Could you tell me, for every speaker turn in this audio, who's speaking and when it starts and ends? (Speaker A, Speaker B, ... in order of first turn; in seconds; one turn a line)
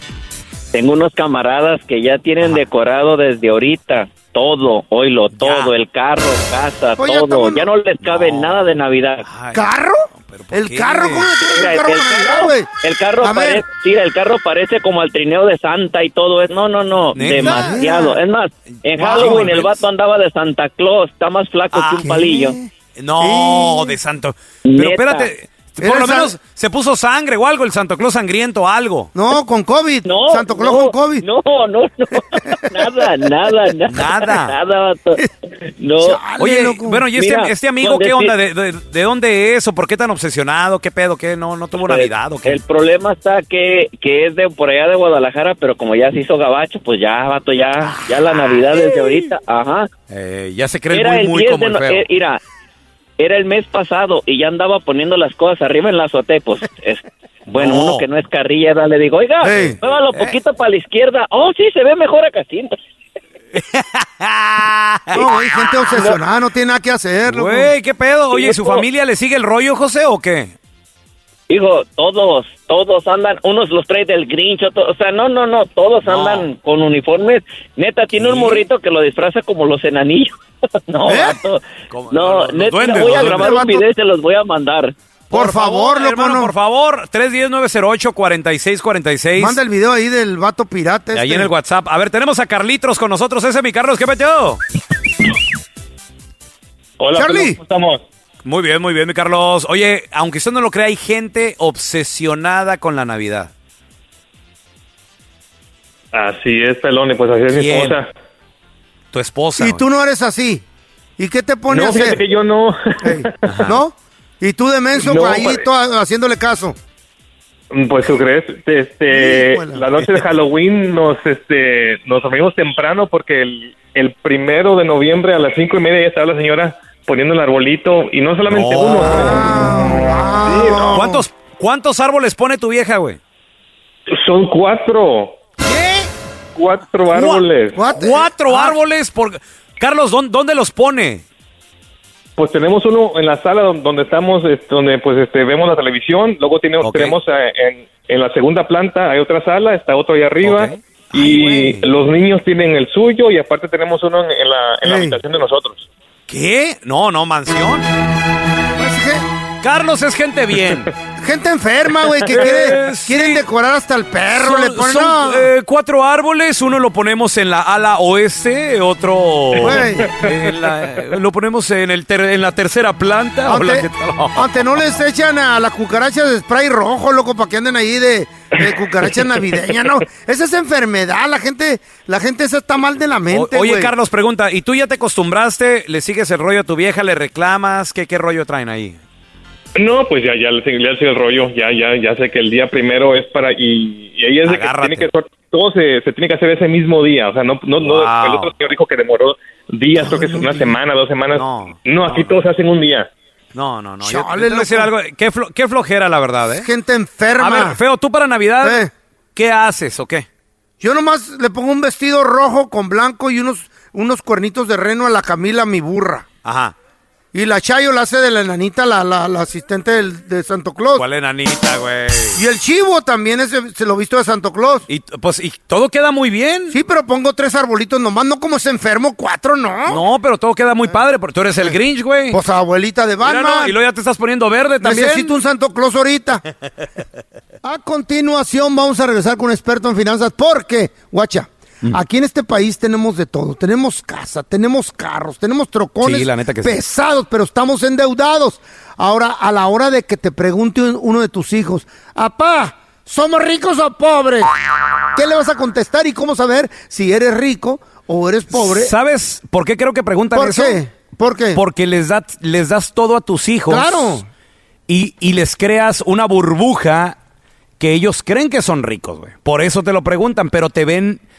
Speaker A: 0.7-9.2
Speaker B: 5.3-5.7
Speaker C: 7.0-7.7
Speaker B: 8.0-11.3
Speaker C: 9.5-12.7
Speaker A: 11.5-22.6
Speaker C: 13.2-13.6
Speaker B: 17.1-17.8
Speaker C: 17.4-18.2
Speaker B: 18.8-19.8
Speaker C: 19.0-19.5
Speaker B: 21.7-22.1
Speaker C: 22.0-23.9
Speaker B: 23.0-29.1
Speaker A: 24.7-25.3
Speaker C: 25.8-26.3
Speaker C: 29.1-31.2
Speaker A: 30.1-35.2
Speaker C: 32.3-33.1
Speaker B: 33.9-34.5
Speaker A: 35.8-36.2
Speaker C: 36.0-37.0
Speaker B: 36.4-42.6
Speaker A: 37.2-38.3
Speaker A: 41.8-49.9
Speaker B: 50.1-52.0
Speaker A: 50.9-52.4
Speaker A: 53.2-62.7
Speaker B: 57.6-58.0
Speaker C: 59.4-59.8
Speaker B: 59.5-60.3
Speaker B: 63.5-65.3
Speaker C: 65.1-67.7
Speaker B: 67.3-70.5
Speaker A: 68.3-68.8
Speaker A: 71.5-80.3
Speaker B: 76.0-76.5
Speaker B: 78.2-78.6
Speaker A: 80.9-84.9
Speaker C: 81.0-81.3
Speaker B: 81.9-83.6
Speaker C: 83.0-83.8
Speaker B: 85.3-89.6
Speaker C: 85.3-86.5
Speaker C: 89.4-91.5
Speaker B: 91.1-94.6
Speaker D: 97.0-98.0
Speaker C: 97.2-97.6
Speaker B: 98.4-103.5
Speaker D: 106.1-108.1
Speaker B: 107.5-108.0
Speaker B: 109.1-109.8
Speaker C: 109.6-110.6
Speaker C: 111.2-112.2
Speaker D: 111.7-113.3
Speaker C: 113.0-116.8
Speaker B: 113.5-113.8
Speaker D: 115.0-115.6
Speaker D: 117.7-129.4
Speaker C: 119.1-119.8
Speaker B: 128.5-129.5
Speaker C: 129.1-131.2
Speaker D: 130.5-130.9
Speaker B: 130.9-133.2
Speaker D: 134.1-135.4
Speaker B: 135.7-136.1
Speaker D: 136.5-137.8
Speaker B: 137.1-141.2
Speaker C: 137.7-138.8
Speaker D: 142.4-155.8
Speaker B: 146.8-147.2
Speaker B: 150.4-151.9
Speaker C: 154.8-155.2
Speaker B: 156.3-157.9
Speaker C: 158.8-159.2
Speaker B: 159.6-160.9
Speaker C: 161.2-165.5
Speaker B: 162.3-163.4
Speaker B: 164.3-174.6
Speaker C: 169.6-170.1
Speaker C: 173.5-183.9
Speaker B: 183.3-189.0
Speaker D: 189.8-203.1
Speaker B: 194.4-195.1
Speaker B: 197.8-198.5
Speaker C: 200.2-200.7
Speaker B: 201.3-202.4
Speaker B: 203.5-206.7
Speaker C: 204.0-204.9
Speaker C: 206.5-207.8
Speaker B: 207.4-210.2
Speaker C: 208.6-208.9
Speaker C: 210.8-216.2
Speaker B: 216.4-216.7
Speaker C: 217.3-221.0
Speaker B: 220.9-222.4
Speaker C: 222.3-224.8
Speaker B: 224.9-226.8
Speaker C: 226.7-230.0
Speaker B: 229.9-232.4
Speaker C: 232.3-233.7
Speaker B: 233.2-235.3
Speaker C: 234.8-236.4
Speaker C: 237.6-254.5
Speaker B: 246.0-246.8
Speaker C: 255.1-258.9
Speaker B: 258.5-260.8
Speaker C: 260.3-261.6
Speaker B: 261.5-264.2
Speaker C: 263.7-264.3
Speaker B: 264.9-267.1
Speaker B: 267.8-271.2